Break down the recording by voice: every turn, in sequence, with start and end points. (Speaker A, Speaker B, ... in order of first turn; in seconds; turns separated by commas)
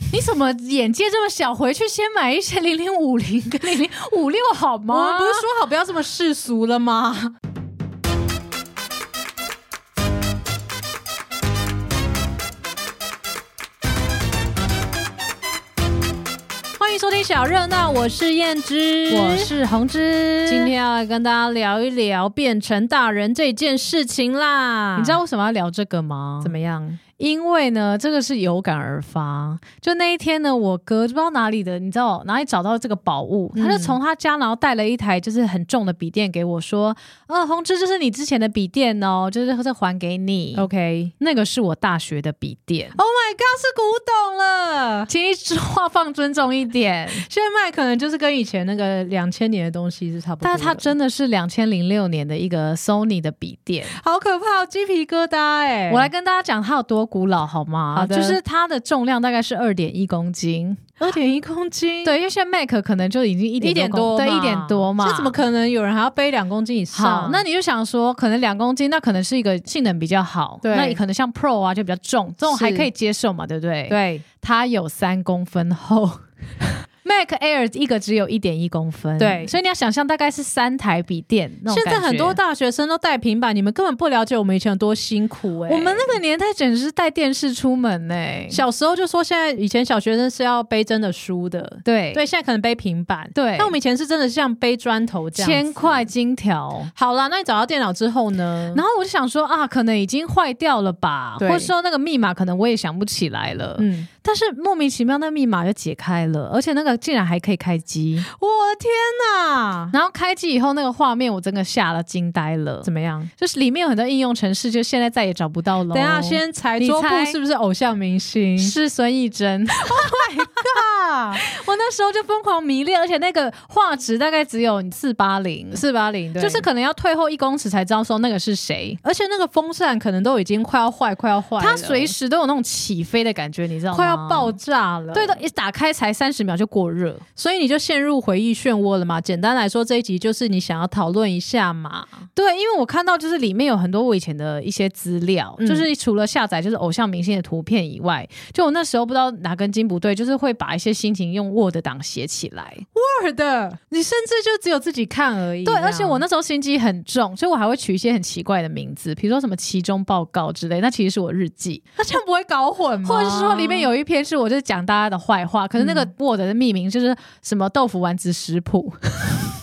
Speaker A: 0.1-5.4, Speaker B: 4.9-7.3, Speaker B: 16.8-19.5, Speaker A: 19.1-20.7, Speaker B: 20.4-25.2, Speaker A: 24.9-26.6, Speaker B: 26.4-27.0, Speaker A: 27.2-40.7, Speaker B: 33.5-34.0, Speaker B: 40.5-41.1, Speaker A: 41.2-43.0, Speaker B: 42.9-45.1, Speaker A: 45.1-47.2, Speaker B: 47.2-50.9, Speaker A: 50.4-53.9, Speaker B: 53.9-56.1, Speaker A: 55.9-60.9, Speaker B: 57.9-58.4, Speaker B: 61.0-62.1, Speaker A: 62.0-65.3, Speaker B: 63.6-67.4, Speaker A: 66.9-76.2, Speaker B: 70.6-71.0, Speaker B: 72.4-72.9, Speaker B: 73.9-74.2, Speaker A: 77.0-82.4, Speaker B: 79.2-79.5, Speaker B: 81.7-86.2, Speaker A: 85.7-88.6, Speaker B: 88.5-96.1, Speaker A: 91.8-92.2, Speaker A: 93.3-93.7, Speaker A: 95.3-96.9, Speaker B: 96.9-98.8, Speaker A: 98.7-108.3, Speaker B: 101.4-101.7, Speaker B: 103.8-104.1, Speaker B: 108.2-109.9, Speaker A: 109.9-117.4, Speaker B: 112.8-113.3, Speaker B: 115.9-118.8, Speaker A: 118.6-120.7, Speaker B: 119.8-121.4, Speaker A: 121.3-125.8, Speaker B: 125.7-126.7, Speaker A: 126.4-129.0, Speaker B: 129.0-132.1, Speaker A: 131.6-134.6, Speaker B: 133.9-135.4, Speaker A: 135.1-137.2, Speaker B: 137.4-142.3, Speaker A: 142.3-152.8, Speaker B: 145.6-145.9, Speaker B: 152.9-156.2, Speaker A: 155.6-161.8, Speaker B: 162.0-163.9, Speaker A: 163.0-169.4, Speaker B: 165.8-166.1